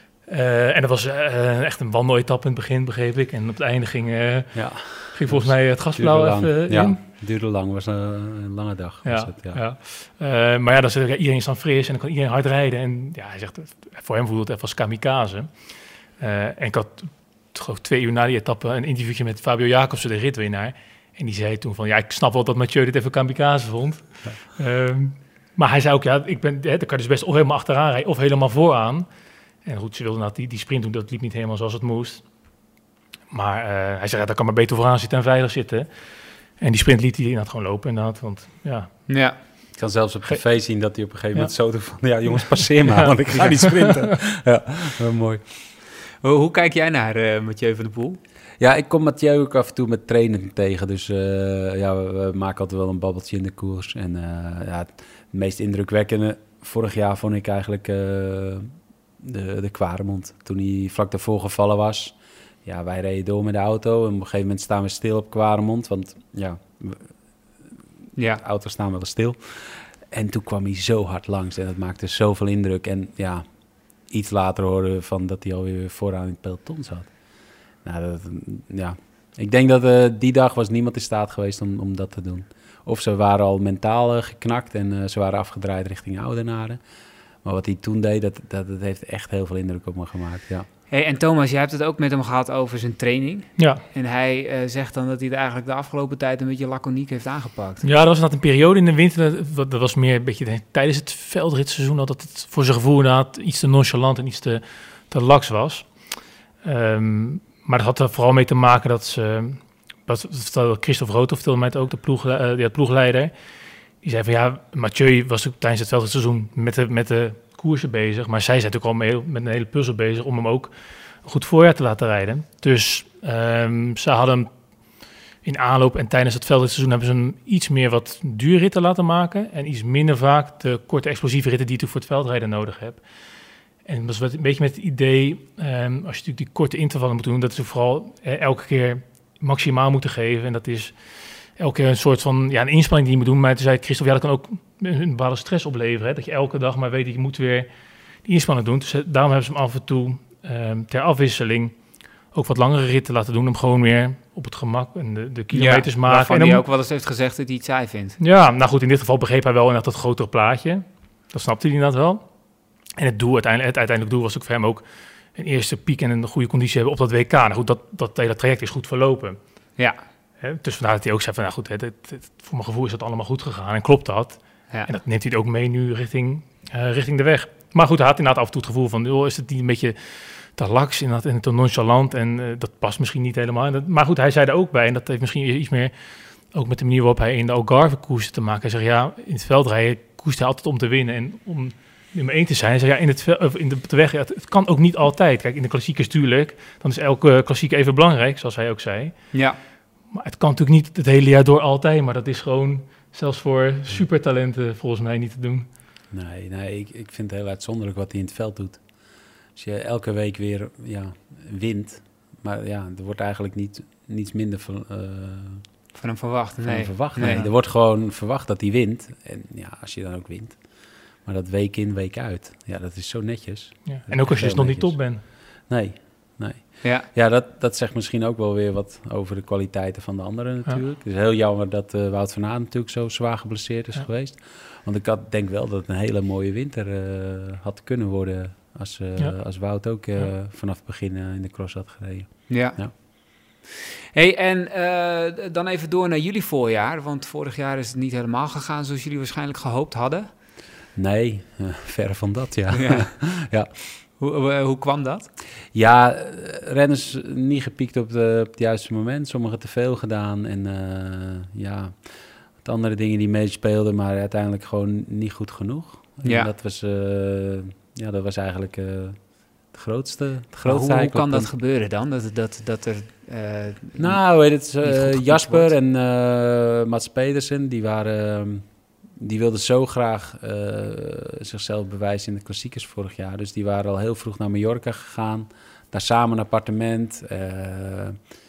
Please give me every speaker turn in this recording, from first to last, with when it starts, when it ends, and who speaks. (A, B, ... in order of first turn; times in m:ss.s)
0:00.2-0:07.0 A
0:04.5-0:09.6 B
0:09.0-0:29.1 A
0:29.6-0:32.3 A
0:33.3-0:39.5 A
0:39.1-0:39.4 C
0:39.7-0:45.4 B
0:40.3-0:41.5 A
0:42.1-0:44.0 A
0:46.2-0:48.2 C
0:48.6-1:07.2 B
1:08.1-1:08.4 C
1:08.4-1:26.8 B
1:27.4-1:30.7 B
1:30.9-1:37.8 C
1:33.6-1:33.8 A
1:37.8-1:53.4 A
1:54.0-2:13.1 A
2:13.8-2:27.7 A
2:28.2-2:36.6 A
2:35.5-2:38.2 C
2:38.2-2:42.3 A
2:42.9-2:49.4 A
2:50.4-3:19.5 A
3:19.3-3:19.6 C
3:20.1-3:25.7 A
3:26.1-3:35.7 B
3:35.9-3:37.5 C
3:36.6-4:02.9 B
3:43.8-3:45.2 A
3:46.8-3:47.1 C
3:59.2-4:00.3 A
4:02.5-4:03.4 C
4:04.1-4:10.3 C
4:10.9-4:14.0 B
4:12.7-4:13.2 C
4:14.2-4:15.3 C
4:15.7-4:31.5 B
4:26.2-4:26.5 C
4:30.6-4:35.7 C
4:34.0-4:48.2 B